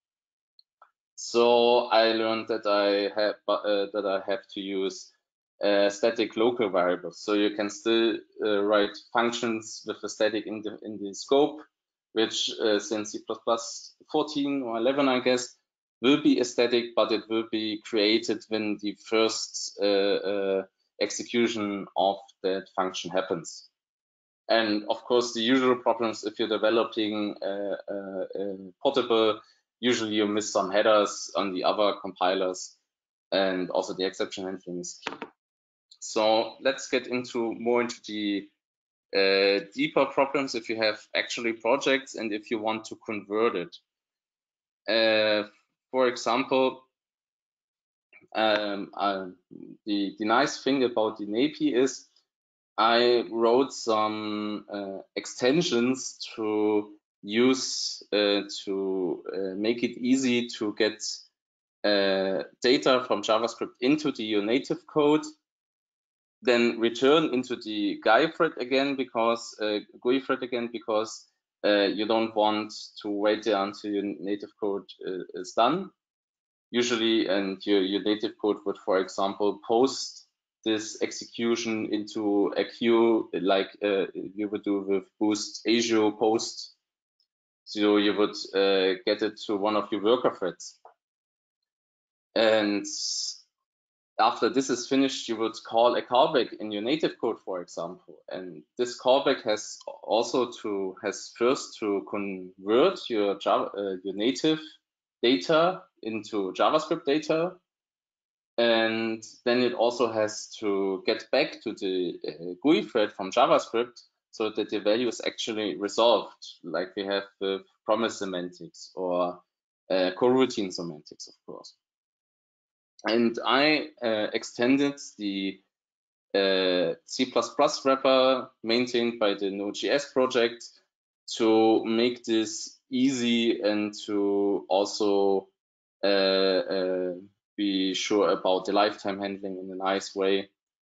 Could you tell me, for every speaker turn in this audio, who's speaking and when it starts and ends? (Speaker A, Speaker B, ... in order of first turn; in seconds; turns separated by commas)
Speaker A: 1.1-23.7, Speaker A: 24.5-32.8, Speaker A: 33.3-35.2, Speaker A: 36.0-38.5, Speaker A: 39.1-43.8, Speaker A: 44.9-46.9, Speaker A: 48.3-52.1, Speaker A: 52.8-61.2, Speaker A: 61.8-65.3, Speaker A: 66.4-75.9, Speaker A: 76.7-86.7, Speaker A: 87.7-90.8, Speaker A: 92.3-93.4, Speaker A: 94.2-104.6, Speaker A: 105.2-107.6, Speaker A: 108.6-121.8, Speaker A: 123.1-125.6, Speaker A: 126.3-130.7, Speaker A: 131.3-135.5, Speaker A: 136.0-140.5